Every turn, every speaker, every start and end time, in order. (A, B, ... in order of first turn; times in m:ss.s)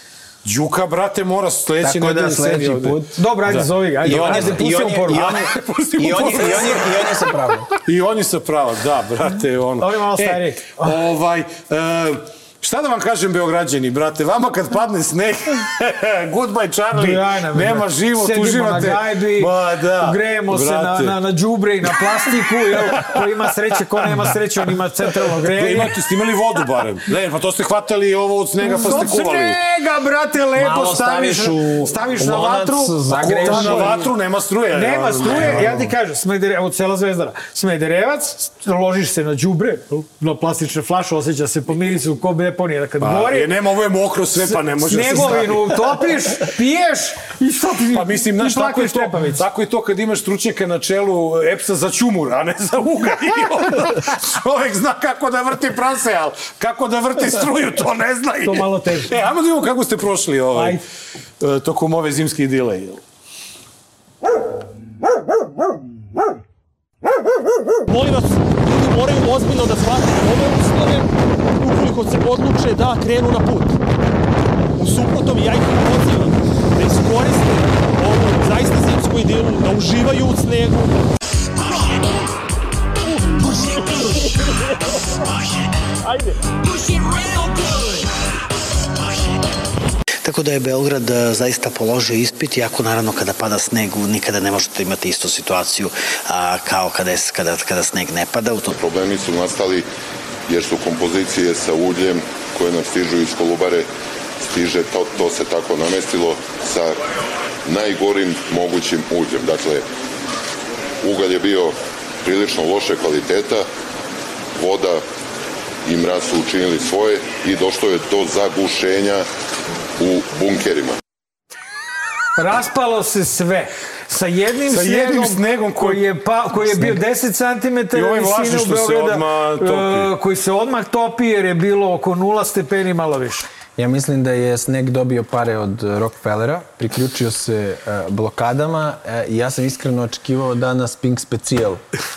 0:00.4-0:07.2 A
0:01.8-0:03.1 B
0:03.2-0:05.3 C
0:04.0-0:07.7 B
0:07.7-0:21.2 A
0:09.8-0:11.0 C
0:16.9-0:25.9 C
0:22.7-0:23.2 A
0:24.0-0:24.3 A
0:25.5-0:29.6 A
0:28.6-0:34.0 C
0:30.6-0:34.1 B
0:33.1-0:35.9 A
0:34.7-0:43.5 C
0:35.3-0:35.8 B
0:43.0-0:46.1 A
0:44.4-0:49.4 C
0:47.9-1:00.8 A
0:58.4-0:59.2 C
1:00.5-1:00.8 C
1:01.4-1:03.0 A
1:07.9-1:13.8 D
1:14.8-1:20.9 D
1:30.2-1:38.8 E
1:38.6-1:39.8 F
1:40.5-1:43.8 F
1:44.5-1:47.0 F
1:47.6-1:49.8 F
1:51.0-1:53.6 F
1:54.6-1:55.0 F
1:55.8-1:59.3 F
2:00.0-2:01.0 F
2:02.4-2:13.4 C
2:04.7-2:06.0 A
2:06.6-2:06.9 A
2:07.9-2:10.1 A
2:13.8-2:21.8 B